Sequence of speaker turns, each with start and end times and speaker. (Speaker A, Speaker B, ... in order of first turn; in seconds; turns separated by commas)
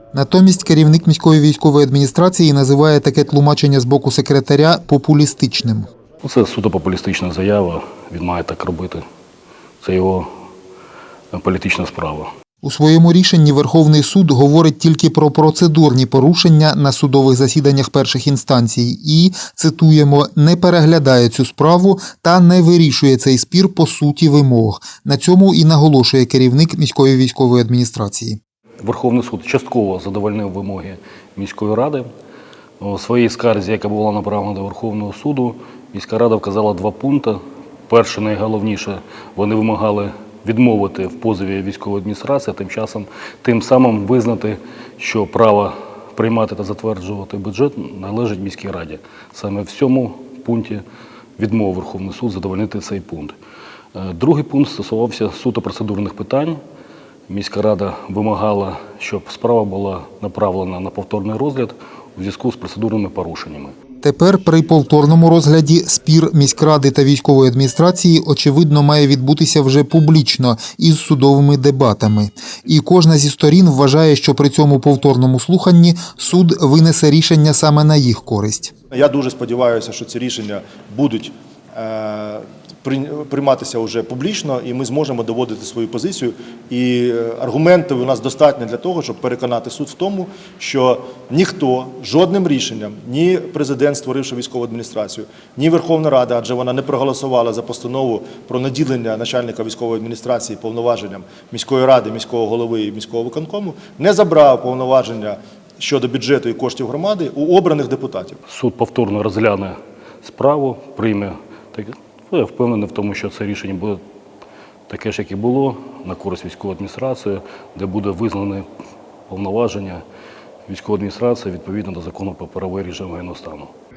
Speaker A: 0.1-5.9, Speaker B: 6.2-9.0, Speaker B: 9.8-10.2, Speaker B: 11.3-12.3, Speaker A: 12.6-28.4, Speaker B: 28.8-32.1, Speaker B: 32.8-50.8, Speaker B: 51.4-53.4, Speaker B: 53.9-56.6, Speaker B: 57.3-63.7, Speaker A: 64.0-78.7, Speaker C: 78.9-108.4, Speaker B: 108.5-114.0, Speaker B: 114.9-118.7, Speaker B: 119.3-120.0, Speaker B: 120.7-123.7